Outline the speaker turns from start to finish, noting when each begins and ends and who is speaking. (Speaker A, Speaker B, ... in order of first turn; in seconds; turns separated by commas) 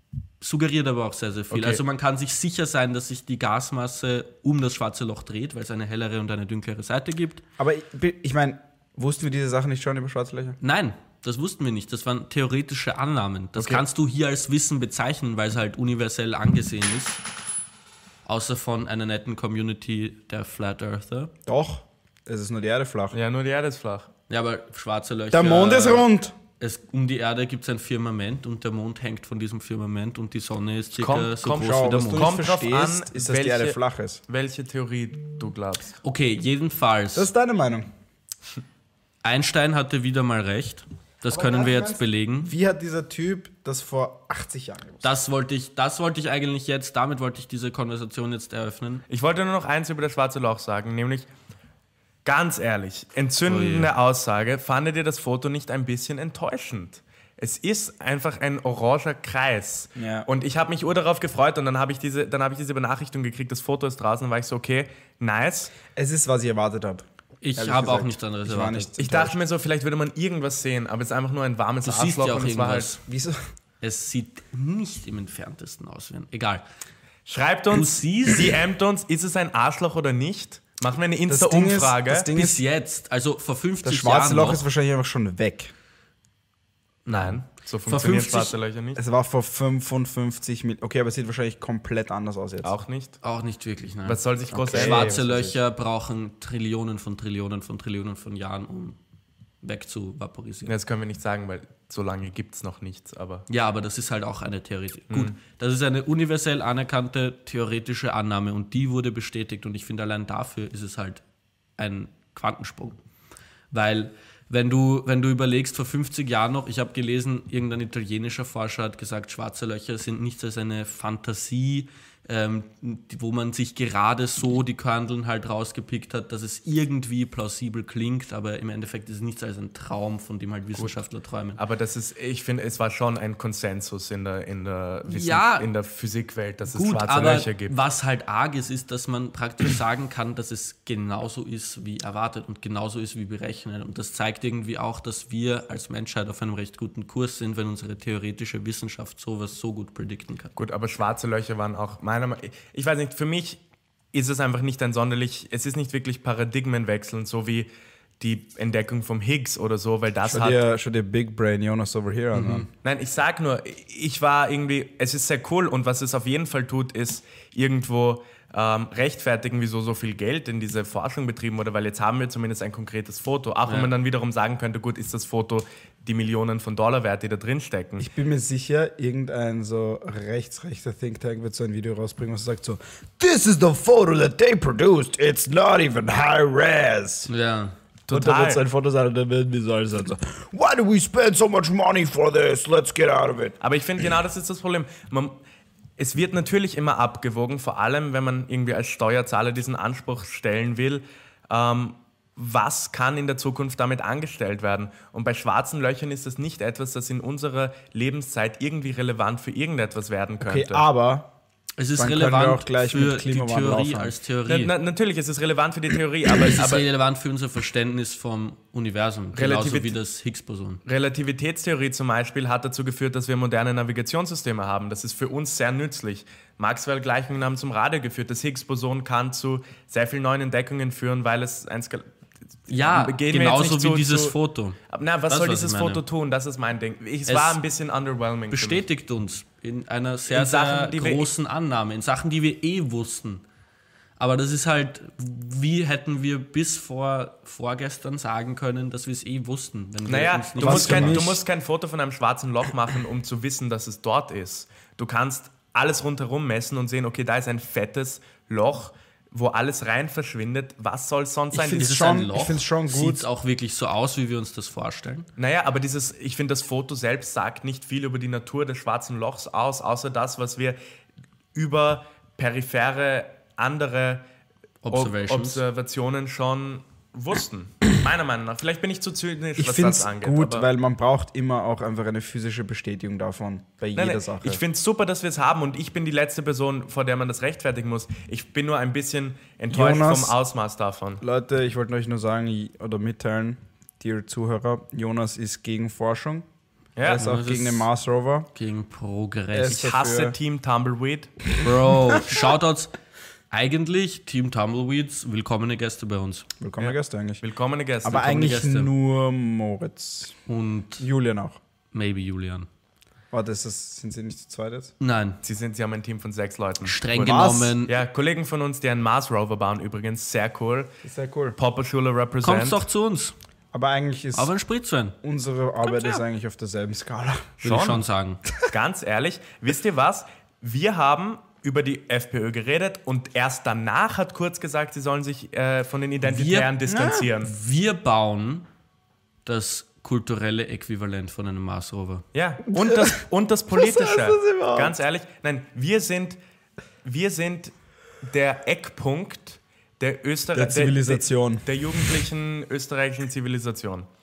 Speaker A: 0.4-7.4, Speaker B: 1.5-1.8, Speaker C: 7.6-10.6, Speaker A: 10.6-17.2, Speaker B: 13.6-13.8, Speaker A: 18.3-21.3, Speaker C: 21.5-23.2, Speaker B: 23.1-24.1, Speaker A: 24.3-26.1, Speaker C: 25.3-26.3, Speaker A: 26.6-32.4, Speaker B: 31.0-33.8, Speaker C: 31.6-34.2, Speaker B: 34.3-36.0, Speaker A: 36.0-37.3, Speaker C: 37.1-37.9, Speaker A: 39.2-42.5, Speaker C: 41.3-45.1, Speaker A: 45.0-49.0, Speaker B: 49.1-51.3, Speaker B: 52.2-65.7, Speaker A: 53.5-53.9, Speaker C: 60.0-60.3, Speaker C: 66.0-67.0, Speaker A: 67.4-69.2, Speaker C: 67.6-69.3, Speaker B: 69.0-73.0, Speaker A: 71.8-73.0, Speaker C: 73.1-73.4, Speaker A: 73.8-76.6, Speaker B: 77.3-82.3, Speaker A: 77.7-78.6, Speaker C: 81.3-82.6, Speaker A: 82.3-84.7, Speaker C: 83.8-85.7, Speaker A: 87.1-88.5, Speaker B: 87.1-89.0, Speaker C: 89.0-92.7, Speaker B: 92.6-93.2, Speaker A: 93.2-99.0, Speaker B: 94.0-95.2, Speaker C: 94.5-95.6, Speaker A: 99.6-100.7, Speaker B: 100.7-103.5, Speaker A: 103.5-111.2, Speaker A: 111.8-113.0, Speaker A: 113.7-131.6, Speaker B: 131.6-137.8, Speaker A: 135.1-135.7, Speaker A: 136.7-150.5, Speaker B: 150.6-153.6, Speaker B: 154.1-157.7, Speaker B: 158.2-160.6, Speaker C: 160.2-162.7, Speaker A: 162.3-162.7, Speaker B: 162.8-178.1, Speaker A: 173.7-173.9, Speaker C: 178.0-187.3, Speaker A: 187.3-187.8, Speaker B: 188.1-188.6, Speaker C: 188.1-193.6, Speaker B: 193.6-195.4, Speaker B: 196.0-210.8, Speaker C: 210.4-211.3, Speaker A: 211.8-214.7, Speaker C: 211.9-214.2, Speaker B: 214.5-216.8, Speaker A: 216.3-220.8, Speaker B: 219.3-220.0, Speaker B: 220.8-232.1, Speaker B: 232.7-234.4, Speaker A: 232.7-236.0, Speaker B: 234.9-238.8, Speaker A: 237.3-237.6, Speaker A: 238.5-243.4, Speaker B: 240.3-241.3, Speaker A: 244.2-251.3, Speaker B: 250.1-262.0, Speaker C: 250.6-251.4, Speaker C: 261.5-263.3, Speaker A: 261.7-265.3, Speaker B: 265.4-270.8, Speaker B: 271.6-274.3, Speaker A: 274.8-275.6, Speaker B: 274.9-280.7, Speaker C: 279.6-284.6, Speaker B: 284.0-291.2, Speaker C: 289.7-290.4, Speaker C: 291.2-296.4, Speaker B: 297.0-297.3, Speaker C: 297.1-298.5, Speaker A: 297.1-297.9, Speaker A: 298.6-299.9, Speaker C: 299.5-300.4, Speaker B: 299.7-301.4, Speaker A: 301.6-302.9, Speaker A: 303.5-306.5, Speaker C: 306.6-307.4, Speaker B: 306.8-308.6, Speaker C: 308.1-310.4, Speaker A: 308.2-308.9, Speaker A: 310.5-311.0, Speaker C: 311.0-311.6, Speaker A: 311.9-312.7, Speaker C: 313.3-314.9, Speaker A: 315.0-315.4, Speaker B: 315.4-317.0, Speaker A: 316.8-317.9, Speaker C: 317.2-317.8, Speaker B: 317.9-320.9, Speaker C: 321.0-321.6, Speaker B: 321.6-322.8, Speaker A: 322.4-323.3, Speaker C: 323.7-324.5, Speaker A: 324.4-325.2, Speaker C: 325.2-327.6, Speaker A: 325.8-326.2, Speaker B: 327.6-328.1, Speaker A: 327.6-328.4, Speaker B: 328.7-337.5, Speaker A: 336.2-336.8, Speaker C: 336.9-337.3, Speaker A: 337.4-338.7, Speaker A: 339.4-342.2, Speaker B: 342.3-346.4, Speaker C: 342.7-344.9, Speaker B: 347.0-354.1, Speaker C: 350.5-351.7